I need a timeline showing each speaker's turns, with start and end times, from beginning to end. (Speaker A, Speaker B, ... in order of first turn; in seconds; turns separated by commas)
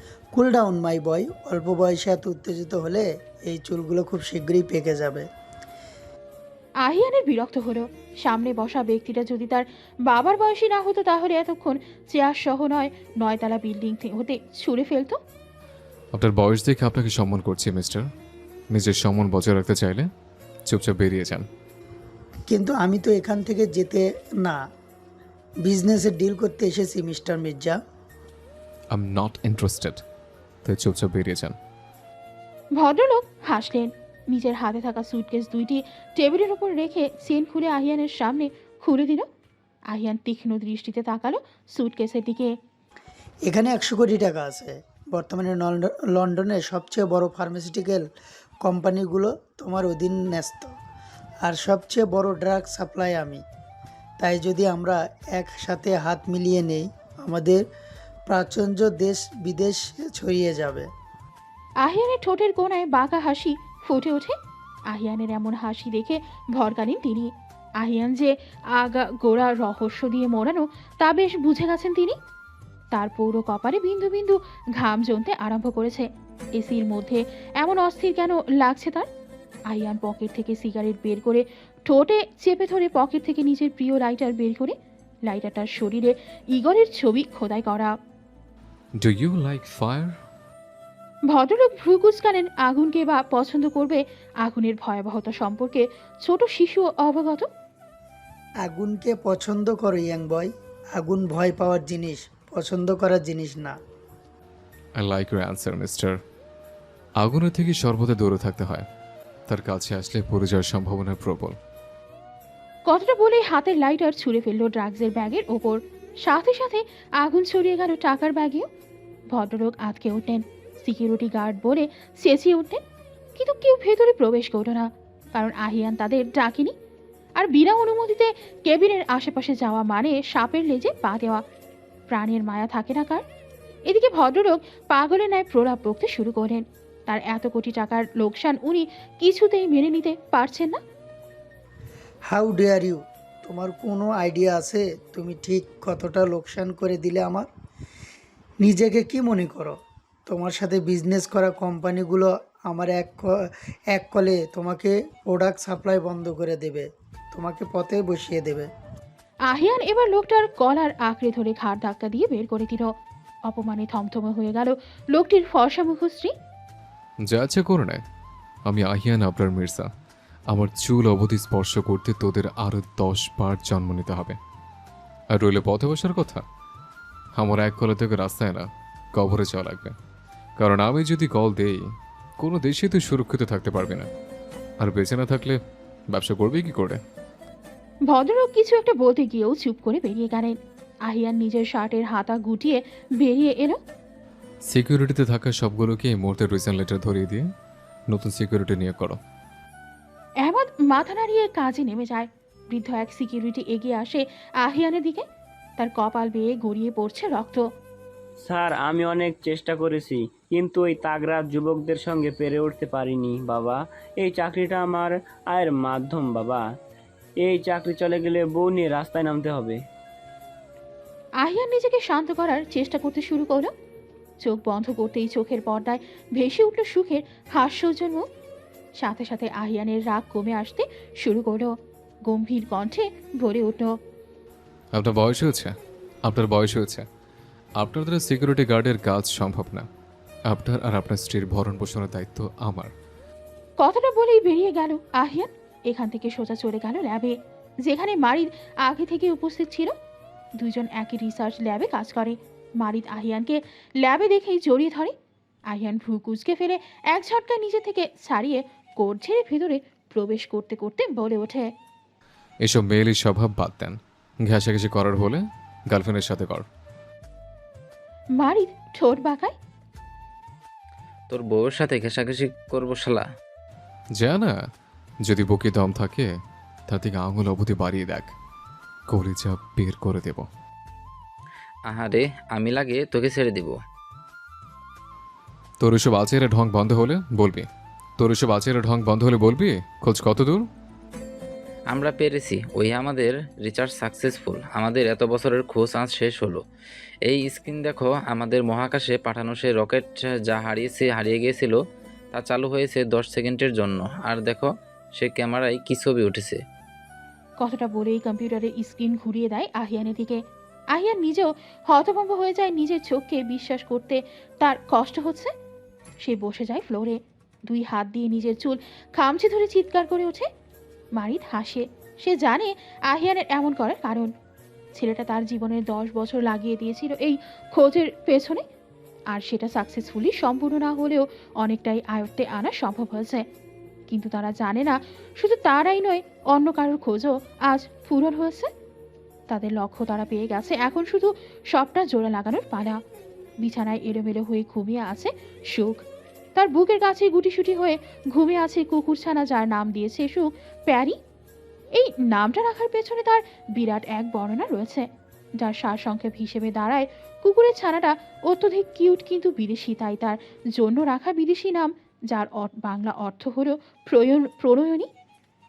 Speaker A: 0.3-5.3, Speaker B: 6.8-15.2, Speaker C: 16.1-18.1, Speaker C: 18.7-20.1, Speaker C: 20.7-21.5, Speaker A: 22.5-24.6, Speaker A: 25.6-27.8, Speaker C: 28.9-30.0, Speaker C: 30.6-31.6, Speaker B: 32.8-39.3, Speaker B: 39.9-42.5, Speaker A: 43.5-48.0, Speaker A: 48.6-50.7, Speaker A: 51.4-53.4, Speaker A: 54.2-57.6, Speaker A: 58.3-60.9, Speaker B: 61.8-64.4, Speaker B: 64.9-72.2, Speaker B: 72.9-79.1, Speaker B: 79.7-84.7, Speaker B: 85.3-87.9, Speaker C: 89.0-90.2, Speaker B: 91.3-97.5, Speaker A: 98.6-103.8, Speaker C: 105.0-106.2, Speaker C: 107.2-108.9, Speaker C: 109.5-111.6, Speaker B: 112.9-118.7, Speaker B: 119.3-122.8, Speaker B: 123.4-126.7, Speaker B: 127.4-131.4, Speaker B: 132.1-133.2, Speaker B: 133.9-140.8, Speaker A: 142.3-147.5, Speaker A: 148.6-153.3, Speaker A: 153.9-158.7, Speaker B: 159.5-162.9, Speaker B: 163.5-166.3, Speaker C: 167.3-168.0, Speaker C: 168.7-169.9, Speaker C: 170.5-174.4, Speaker C: 175.3-176.4, Speaker C: 177.4-179.9, Speaker C: 180.6-184.1, Speaker C: 184.8-185.6, Speaker C: 186.1-187.0, Speaker B: 188.1-193.8, Speaker C: 194.7-197.5, Speaker C: 198.1-199.2, Speaker B: 200.4-205.2, Speaker B: 205.8-207.6, Speaker D: 208.5-216.6, Speaker D: 217.4-219.8, Speaker B: 221.4-223.7, Speaker B: 224.4-228.2, Speaker B: 229.0-231.7, Speaker B: 232.3-233.9, Speaker C: 234.9-235.7, Speaker C: 236.2-237.1, Speaker C: 237.8-239.9, Speaker C: 240.5-242.9, Speaker B: 243.8-249.9, Speaker B: 250.6-255.1, Speaker B: 255.7-261.7, Speaker C: 262.6-266.7, Speaker B: 268.4-269.5, Speaker E: 271.3-273.3, Speaker C: 274.2-274.6, Speaker C: 275.2-276.3, Speaker C: 276.9-278.3, Speaker C: 279.1-280.5, Speaker E: 281.9-283.8, Speaker C: 285.8-287.7, Speaker C: 288.2-290.7, Speaker E: 291.9-296.6, Speaker E: 297.3-301.8, Speaker E: 302.3-306.6, Speaker B: 307.6-310.4, Speaker B: 310.9-315.5, Speaker B: 316.2-320.5, Speaker B: 321.2-324.3, Speaker B: 324.9-328.6, Speaker B: 329.3-333.4, Speaker B: 334.1-338.7, Speaker B: 339.5-343.0, Speaker B: 343.6-346.0, Speaker B: 346.6-351.2, Speaker B: 352.0-355.1, Speaker B: 355.6-365.1